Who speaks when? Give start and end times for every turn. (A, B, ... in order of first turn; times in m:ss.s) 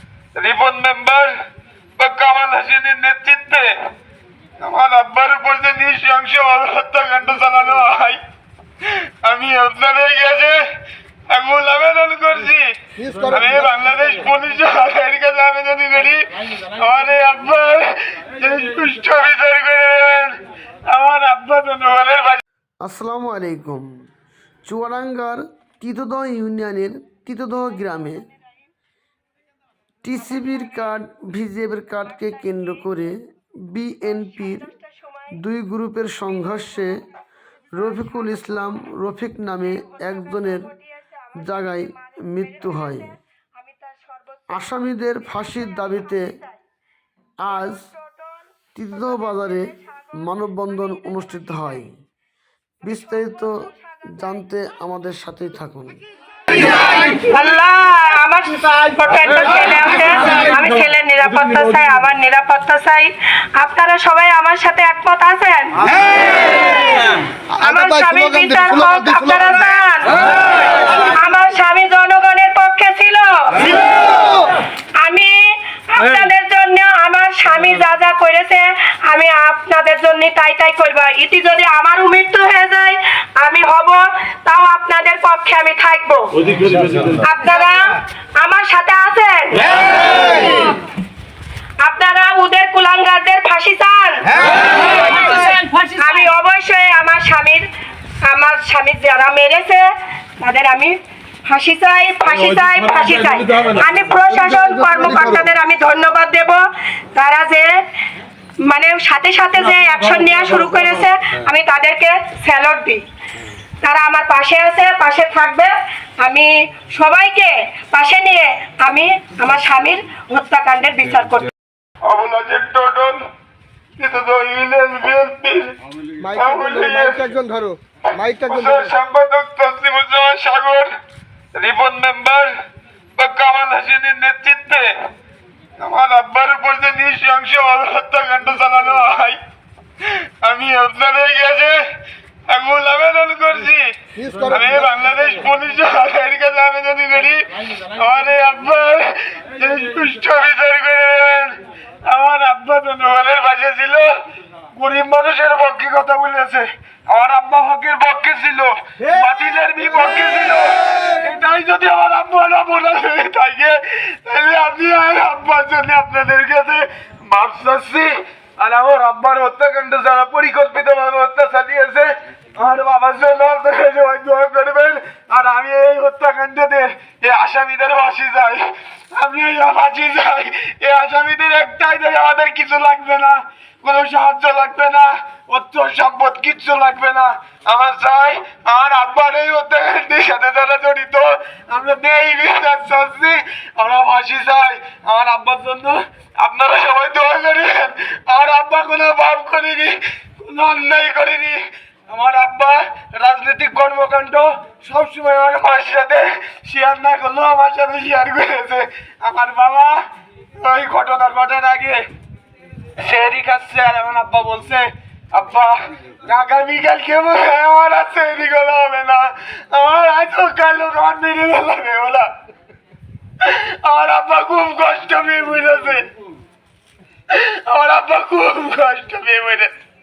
0:00.4-0:01.4 A
0:02.0-0:03.8 A
0:04.6-0:08.2 A
0:09.2-0:10.6 A
0:11.3-0:12.7 A
0:13.0-0:13.7 B
0:13.3-0:22.4 A
0:22.8-0:23.9 C
0:24.6-0:28.2 C
0:30.0-0:34.7 C
0:35.3-0:36.9 C
0:37.8-0:40.7 C
0:41.4-0:43.1 C
0:43.6-0:44.4 D
0:44.5-0:46.3 C
0:47.4-0:47.9 C
0:48.8-0:51.9 C
0:52.8-0:56.0 C
0:56.6-1:14.4 D
1:07.6-1:09.4 B
1:15.0-1:26.6 D
1:27.2-1:30.8 D
1:31.8-1:37.7 D
1:38.2-1:47.8 D
1:44.4-1:45.4 B
1:48.7-1:53.0 D
1:53.8-2:01.5 D
2:02.0-2:03.2 A
2:04.0-2:07.2 A
2:06.2-2:08.9 B
2:08.1-2:10.9 A
2:11.6-2:12.6 A
2:13.2-2:15.0 A
2:15.8-2:19.4 A
2:20.4-2:21.8 A
2:22.5-2:23.9 A
2:24.2-2:24.9 B
2:24.4-2:34.1 A
2:34.7-3:30.0 A
3:30.6-3:32.0 A
3:33.0-3:42.3 A
3:43.4-3:46.1 A
3:47.3-3:49.7 A